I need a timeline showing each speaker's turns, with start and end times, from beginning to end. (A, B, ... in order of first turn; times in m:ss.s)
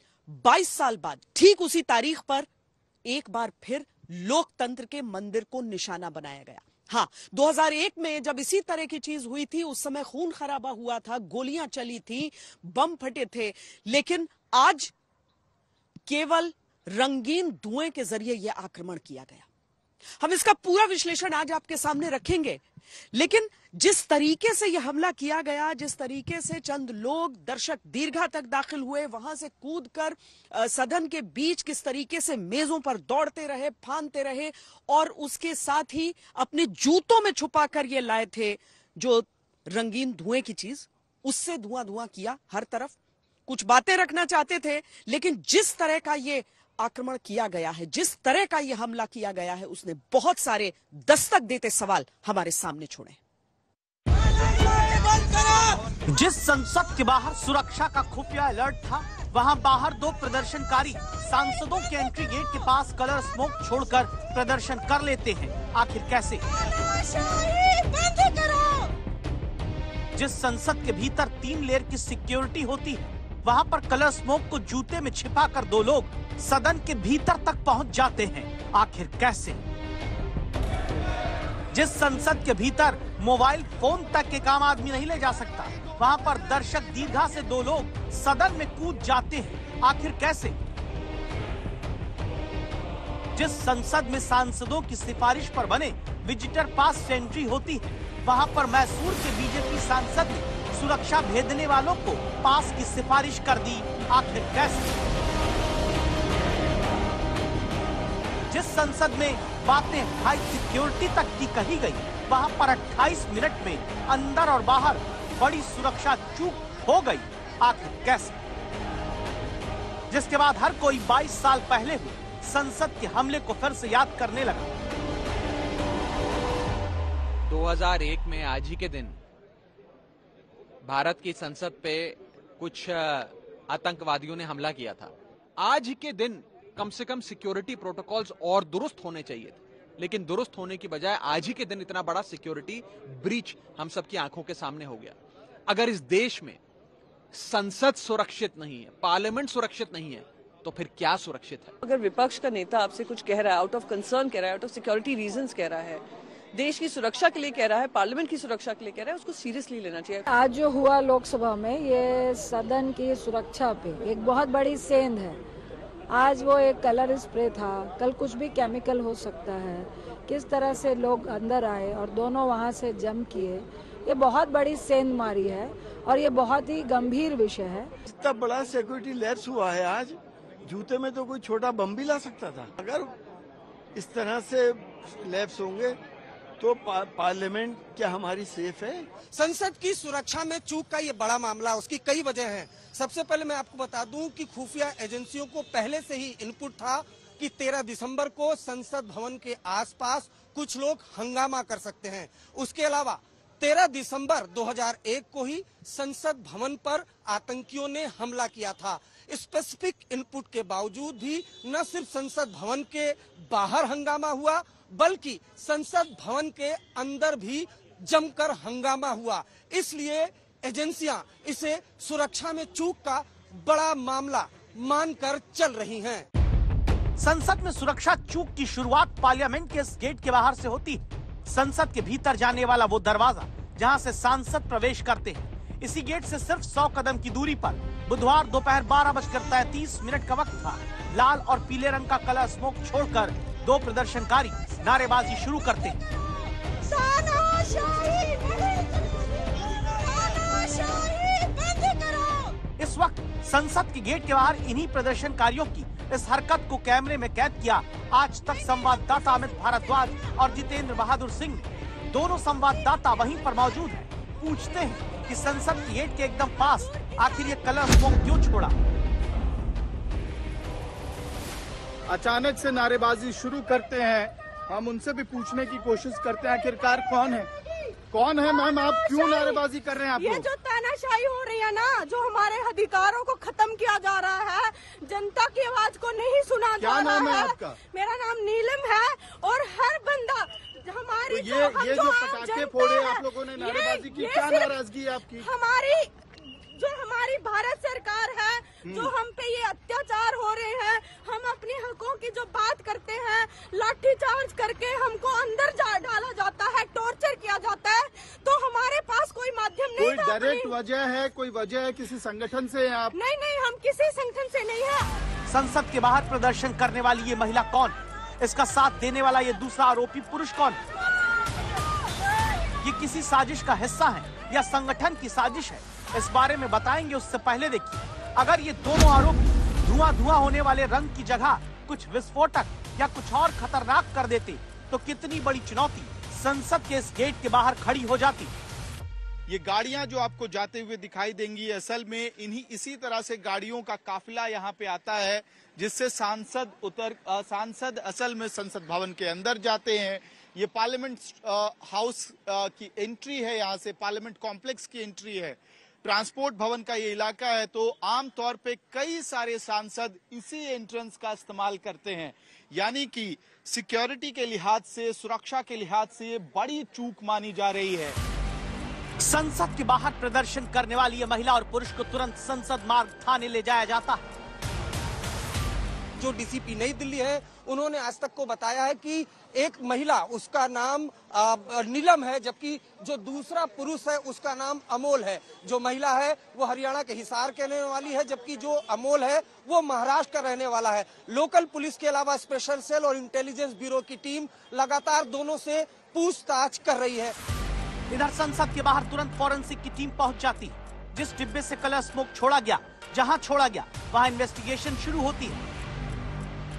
0:00.3-0:02.5 A
0:03.0-0:14.9 A
0:16.0-0:19.5 A
0:20.2-0:22.6 A
0:23.1-0:43.0 A
0:43.5-0:53.2 A
0:56.1-1:06.4 B
1:06.7-1:08.9 C
1:10.1-1:19.6 B
1:21.7-1:30.6 B
1:33.3-1:44.9 B
1:48.5-1:58.4 B
2:00.1-2:04.7 B
2:07.4-2:09.2 D
2:10.8-2:25.2 D
2:25.7-2:26.6 D
2:27.3-2:31.7 D
2:31.8-2:36.0 E
2:36.5-2:40.2 E
2:40.2-2:45.4 F
2:46.1-2:57.9 F
2:58.1-3:03.1 G
3:03.9-3:06.0 G
3:06.6-3:09.0 G
3:09.3-3:46.2 H
3:47.2-4:06.0 B
4:06.8-4:12.6 C
4:12.8-4:28.7 B
4:32.1-4:37.5 I
4:38.1-4:40.4 I
4:38.4-4:56.1 C
4:46.8-4:47.7 I
4:51.3-4:55.4 I
4:56.7-5:10.8 C
5:10.0-5:13.1 I
5:13.1-5:15.1 C
5:15.5-5:20.8 B
5:22.8-5:38.5 B
5:39.5-6:08.2 I
6:09.2-6:14.2 B
6:16.2-6:37.4 H
6:38.1-6:45.6 B